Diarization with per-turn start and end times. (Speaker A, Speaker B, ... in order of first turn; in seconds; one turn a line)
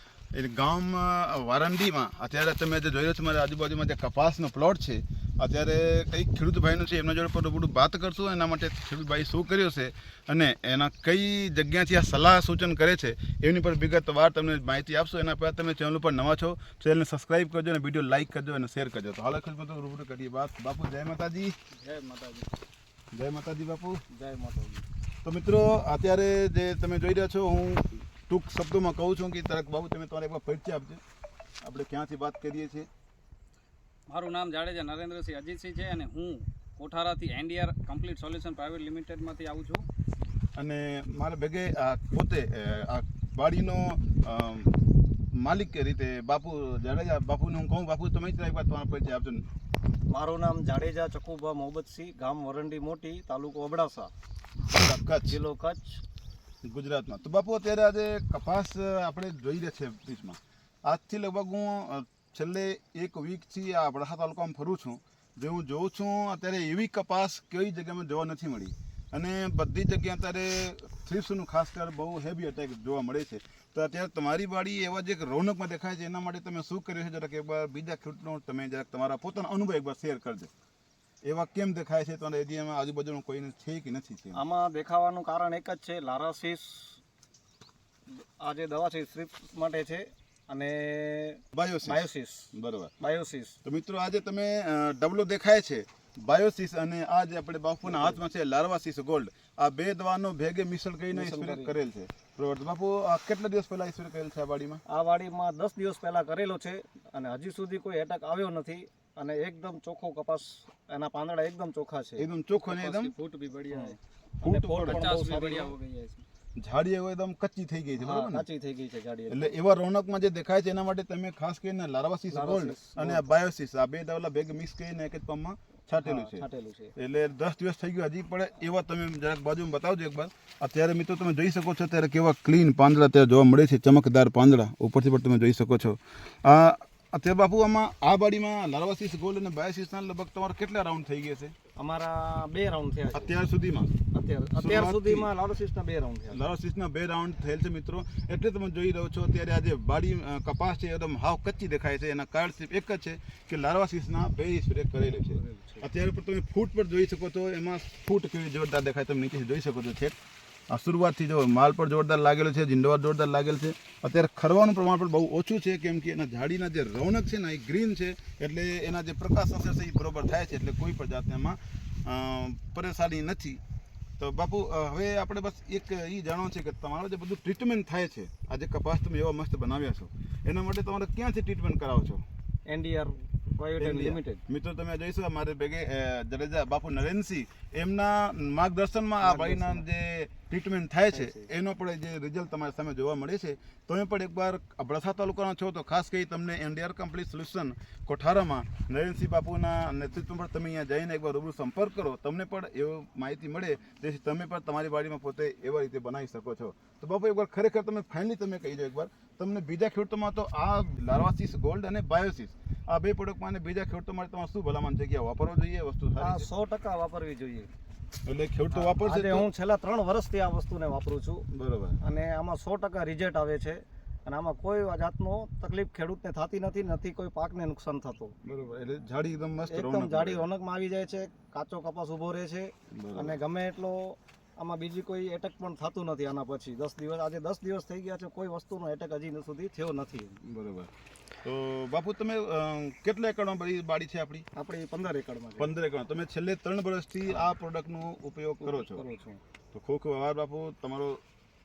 Speaker A: 0.3-21.6
Speaker B: 21.7-22.5
Speaker A: 23.1-24.0
Speaker B: 24.1-24.8
Speaker A: 25.2-31.0
Speaker A: 31.6-32.9
Speaker C: 34.1-39.9
Speaker A: 40.6-44.8
Speaker A: 45.4-49.5
Speaker B: 50.1-54.1
Speaker A: 54.7-55.4
Speaker B: 55.3-56.0
Speaker A: 56.6-80.5
Speaker A: 81.2-84.4
Speaker B: 84.3-87.0
Speaker B: 88.1-93.6
Speaker A: 91.5-92.9
Speaker A: 93.6-104.8
Speaker B: 97.8-98.2
Speaker B: 101.1-101.8
Speaker B: 104.9-116.2
Speaker A: 112.2-113.1
Speaker A: 114.4-115.2
Speaker C: 114.9-116.2
Speaker A: 116.6-118.5
Speaker B: 118.0-119.6
Speaker A: 119.3-126.4
Speaker B: 122.3-123.3
Speaker B: 126.0-126.9
Speaker A: 127.0-141.6
Speaker B: 141.8-143.4
Speaker A: 143.1-143.9
Speaker B: 144.1-146.4
Speaker A: 144.6-145.3
Speaker A: 146.3-160.2
Speaker B: 155.1-155.8
Speaker A: 160.7-173.6
Speaker A: 174.2-182.2
Speaker B: 182.7-184.4
Speaker A: 183.8-216.5
Speaker B: 189.2-189.8
Speaker B: 191.1-191.5
Speaker B: 216.2-217.7
Speaker A: 218.2-219.5
Speaker B: 218.7-221.5
Speaker A: 221.5-222.0
Speaker B: 222.0-228.4
Speaker A: 228.4-230.5
Speaker B: 229.7-240.4
Speaker A: 232.9-233.4
Speaker A: 240.4-240.9
Speaker A: 241.4-244.5
Speaker B: 244.6-245.7
Speaker A: 245.6-249.0
Speaker B: 248.6-249.4
Speaker A: 249.7-251.2